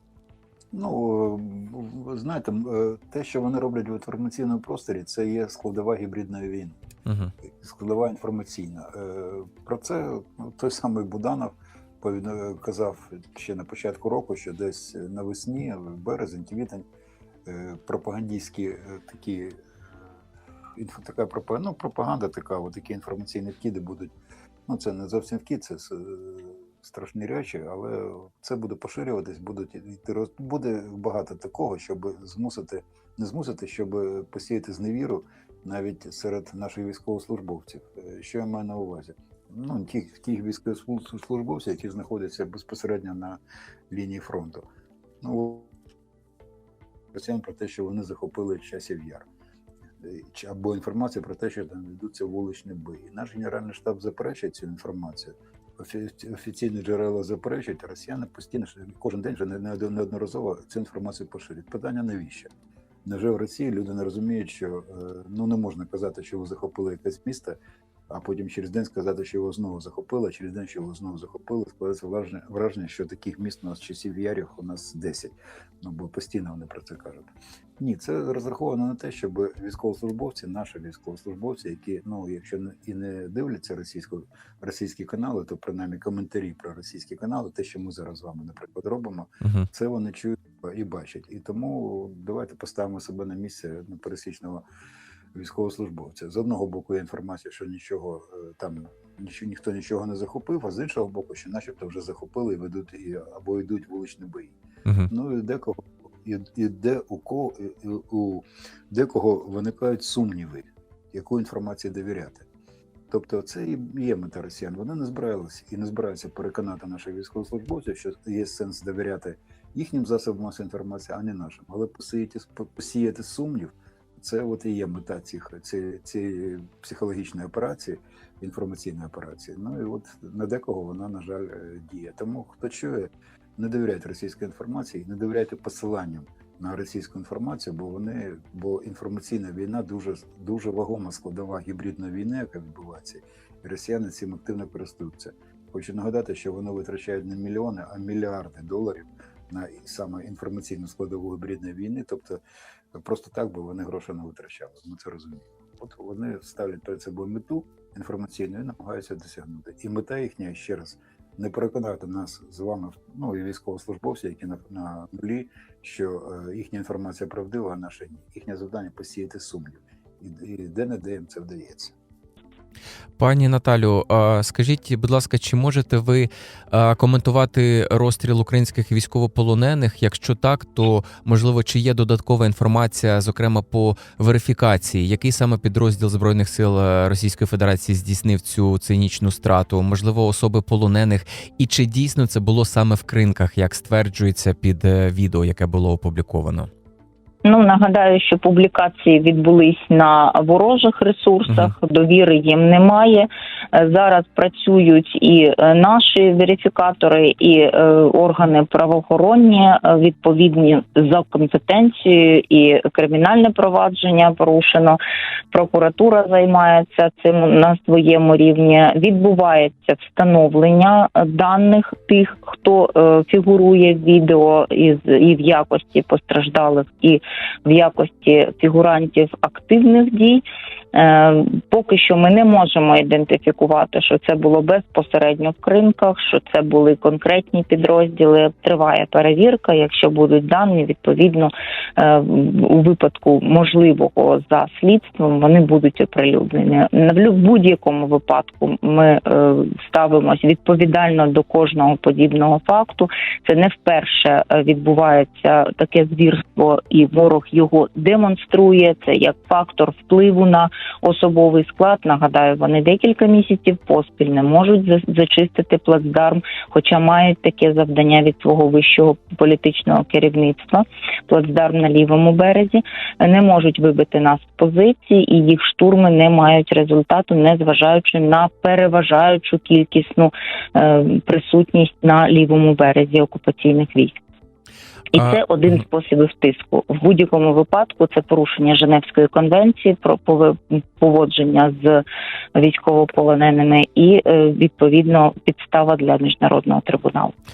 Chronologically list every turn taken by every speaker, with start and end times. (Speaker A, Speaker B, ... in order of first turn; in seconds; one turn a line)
Speaker A: 0.7-6.8
Speaker B: 7.1-7.3
Speaker A: 7.5-16.9
Speaker A: 17.5-19.6
Speaker A: 20.8-24.1
Speaker A: 24.7-44.7
Speaker A: 45.2-45.7
Speaker A: 47.1-49.3
Speaker A: 50.0-62.5
Speaker A: 63.0-67.6
Speaker A: 68.1-94.6
Speaker B: 89.4-89.7
Speaker A: 95.3-104.6
Speaker B: 104.8-105.1
Speaker A: 105.1-112.5
Speaker A: 113.1-152.4
Speaker A: 152.9-171.9
Speaker B: 173.2-196.7
Speaker C: 197.4-215.0
Speaker B: 201.5-201.7
Speaker C: 215.5-284.2
Speaker C: 285.1-292.0
Speaker C: 292.6-297.3